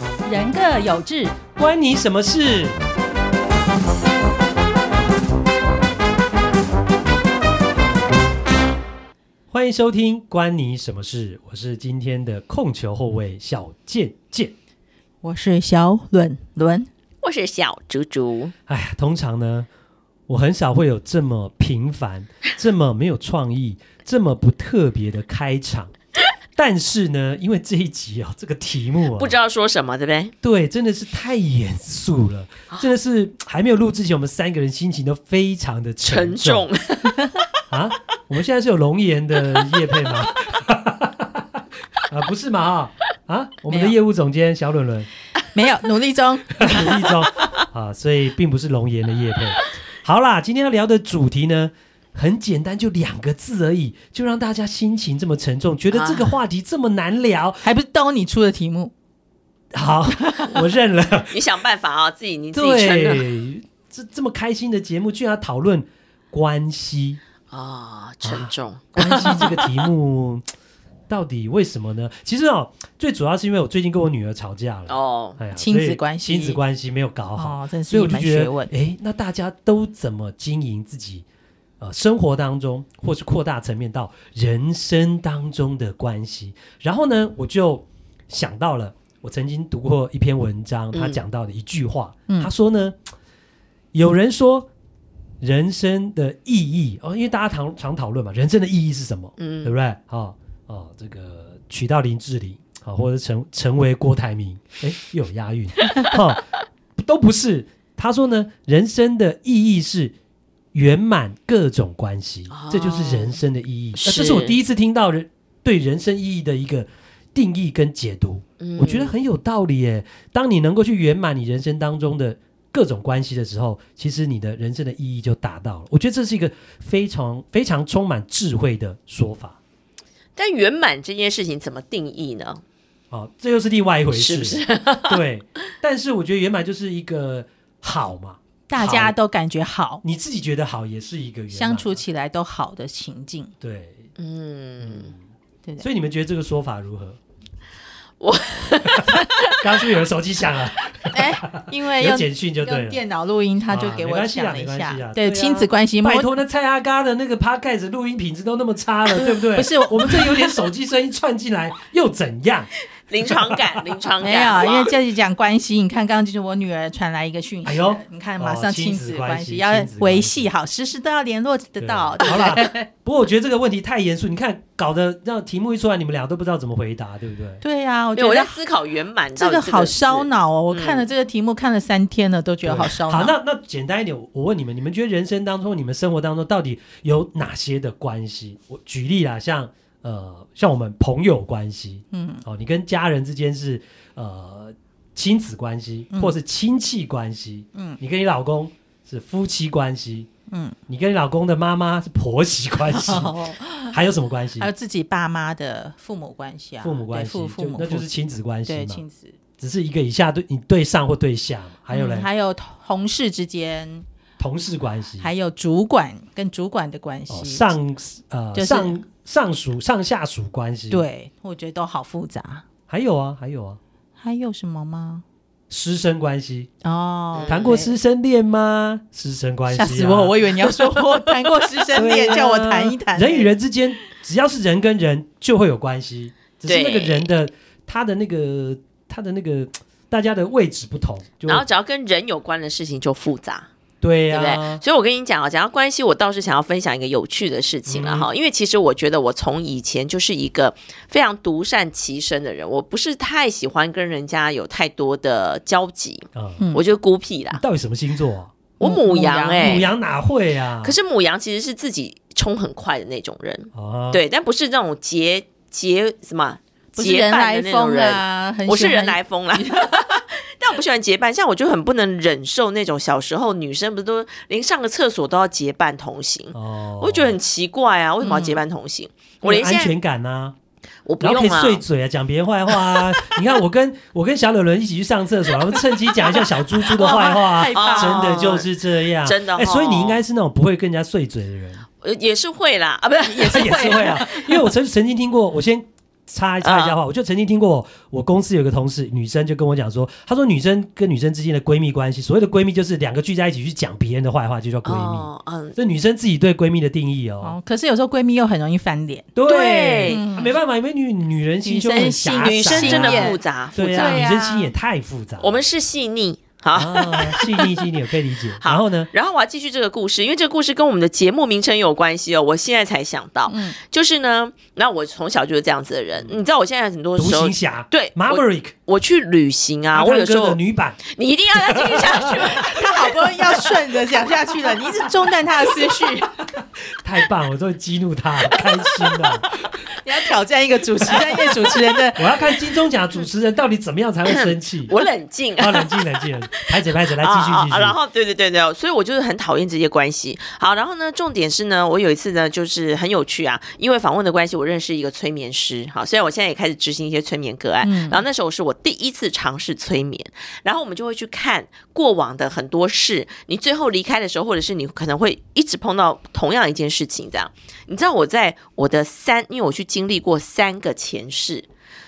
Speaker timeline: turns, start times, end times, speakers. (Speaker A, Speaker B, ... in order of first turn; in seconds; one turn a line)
Speaker A: 0.3-1.4
Speaker B: 1.6-2.8
Speaker B: 9.5-14.5
Speaker A: 15.2-16.9
Speaker C: 17.2-18.5
Speaker B: 18.7-19.7
Speaker B: 20.3-25.9
Speaker B: 26.6-29.4
Speaker C: 29.1-30.3
Speaker B: 30.4-36.7
Speaker C: 36.1-37.3
Speaker B: 37.7-45.1
Speaker A: 43.7-44.0
Speaker A: 45.5-47.1
Speaker B: 46.6-57.6
Speaker C: 55.9-56.3
Speaker A: 57.6-58.9
Speaker B: 59.7-61.3
Speaker C: 61.3-63.3
Speaker B: 62.5-67.2
Speaker C: 67.5-69.5
Speaker B: 68.2-70.5
Speaker A: 69.0-69.7
Speaker B: 71.1-81.2
Speaker C: 74.9-75.4
Speaker A: 75.6-76.6
Speaker A: 77.4-78.7
Speaker B: 81.8-93.0
Speaker C: 90.9-91.2
Speaker B: 93.9-94.7
Speaker B: 95.4-110.2
Speaker C: 99.4-99.8
Speaker B: 110.7-129.6
Speaker C: 112.5-113.4
Speaker C: 113.9-114.6
Speaker C: 118.6-119.1
Speaker C: 130.4-132.6
Speaker B: 133.1-139.2
Speaker C: 134.1-135.2
Speaker A: 138.7-140.0
Speaker B: 140.0-142.0
Speaker A: 141.5-143.5
Speaker B: 143.6-144.1
Speaker C: 144.2-145.1
Speaker B: 144.8-145.2
Speaker B: 145.8-147.2
Speaker C: 148.2-149.6
Speaker B: 148.8-153.0
Speaker A: 151.1-156.3
Speaker B: 153.7-162.7
Speaker A: 159.3-160.6
Speaker C: 163.1-164.9
Speaker B: 163.2-163.8
Speaker A: 164.2-172.9
Speaker B: 167.7-170.5
Speaker B: 171.8-177.6
Speaker A: 177.6-178.6
Speaker C: 178.2-181.1
Speaker A: 179.4-183.3
Speaker B: 182.6-200.3
Speaker A: 192.1-192.4
Speaker A: 200.5-200.8
Speaker B: 200.9-203.4
Speaker A: 202.9-204.0
Speaker B: 203.9-204.7
Speaker A: 204.6-208.1
Speaker B: 206.8-209.0
Speaker A: 208.7-209.4
Speaker B: 209.6-212.3
Speaker A: 211.9-214.1
Speaker B: 214.4-215.3
Speaker A: 215.2-217.7
Speaker B: 217.3-221.1
Speaker A: 218.6-219.0
Speaker A: 220.9-222.7
Speaker B: 222.9-223.8
Speaker A: 224.2-225.2
Speaker B: 225.7-226.7
Speaker A: 226.8-227.9
Speaker C: 227.3-227.7
Speaker B: 227.5-230.4
Speaker A: 229.7-233.5
Speaker C: 230.9-231.8
Speaker B: 231.9-241.7
Speaker C: 236.7-237.3
Speaker C: 241.5-243.7
Speaker B: 244.0-244.8
Speaker C: 244.3-257.6
Speaker B: 247.9-248.3
Speaker B: 256.4-256.6
Speaker B: 257.5-258.5
Speaker C: 258.8-259.9
Speaker A: 258.8-259.9
Speaker B: 259.6-261.0
Speaker C: 260.8-279.9
Speaker B: 263.7-264.2
Speaker A: 266.9-270.1
Speaker B: 276.5-277.4
Speaker A: 278.2-278.6
Speaker B: 279.4-280.6
Speaker C: 281.1-281.8
Speaker B: 281.2-291.9
Speaker C: 282.7-283.4
Speaker A: 286.9-288.4
Speaker C: 287.0-288.7
Speaker C: 289.2-290.2
Speaker C: 292.0-294.6
Speaker B: 293.4-307.6
Speaker A: 293.4-294.1
Speaker C: 296.6-296.9
Speaker C: 304.9-305.8
Speaker A: 307.4-309.3
Speaker B: 309.4-315.6
Speaker C: 309.4-310.3
Speaker A: 310.1-310.5
Speaker A: 311.6-314.7
Speaker C: 312.4-314.3
Speaker C: 315.4-317.8
Speaker B: 316.7-319.1
Speaker C: 318.6-333.6
Speaker A: 323.5-323.8
Speaker B: 326.2-326.4
Speaker B: 327.2-328.8
Speaker B: 329.9-331.0
Speaker B: 331.5-332.8
Speaker A: 332.5-336.5
Speaker B: 337.0-339.5
Speaker A: 339.9-342.3
Speaker B: 341.1-345.0
Speaker C: 344.3-371.7
Speaker B: 345.6-348.0
Speaker A: 357.8-358.2